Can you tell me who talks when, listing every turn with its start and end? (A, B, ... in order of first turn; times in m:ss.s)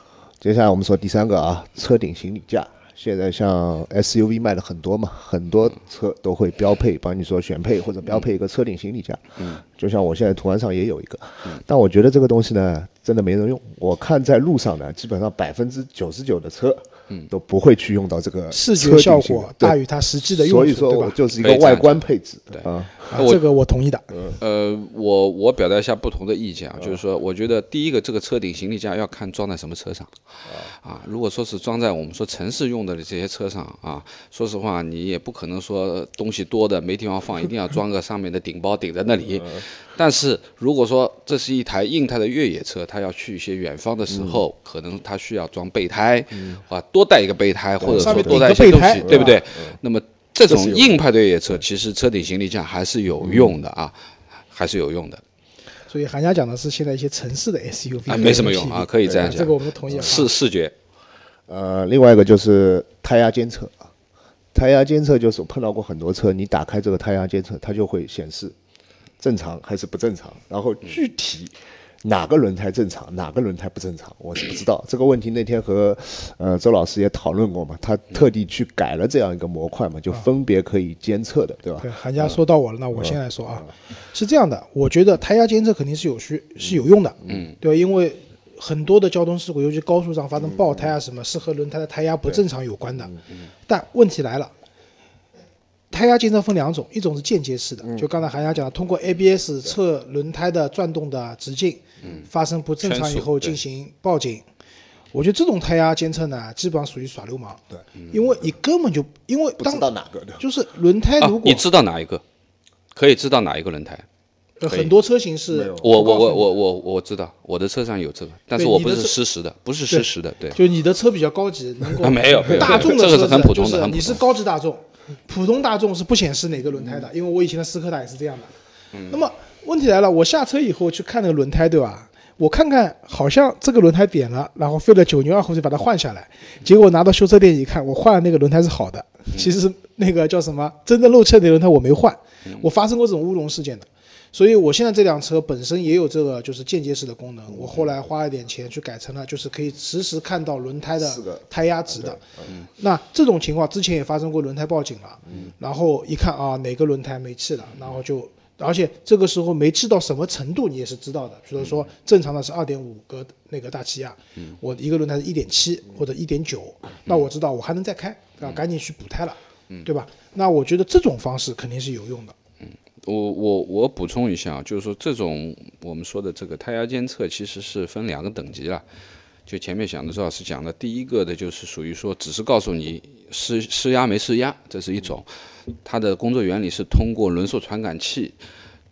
0:00.4-0:23.0 A
0:18.5-0:21.2 B
0:21.4-0:23.4 C
0:23.1-0:24.1 B
0:24.4-0:30.1 C
0:30.5-0:30.7 A
0:30.7-0:54.0 C
0:44.1-0:44.4 A
0:46.3-0:46.6 A
0:47.8-0:49.8 A
0:47.8-0:49.4 B
0:50.5-0:51.0 A
0:53.2-0:53.6 A
0:54.5-0:55.2 C
0:55.9-1:00.3 B
0:58.1-1:00.7 C
0:59.0-1:00.1 A
1:01.5-1:03.9 A
1:04.5-1:08.6 A
1:09.2-1:22.4 A
1:21.8-1:33.2 B
1:23.0-1:23.7 A
1:27.2-1:27.5 A
1:27.3-1:27.5 C
1:30.4-1:30.9 A
1:33.7-1:34.5 B
1:35.9-1:44.4 B
1:37.8-1:38.1 A
1:42.8-1:43.6 C
1:45.1-1:49.9 B
1:49.6-1:50.4 A
1:50.4-1:51.6 B
1:51.2-1:52.2 C
1:52.9-1:54.0 C
1:54.6-1:56.5 B
1:54.7-1:54.9 C
1:55.5-1:56.0 A
1:55.8-2:00.6 C
1:58.6-1:59.2 B
1:59.9-2:08.5 B
2:02.0-2:04.2 C
2:09.1-2:32.2 B
2:31.0-2:32.5 A
2:32.8-2:52.4 B
2:35.3-2:35.5 A
2:52.6-2:58.8 C
2:59.5-3:05.3 C
3:05.8-3:08.4 C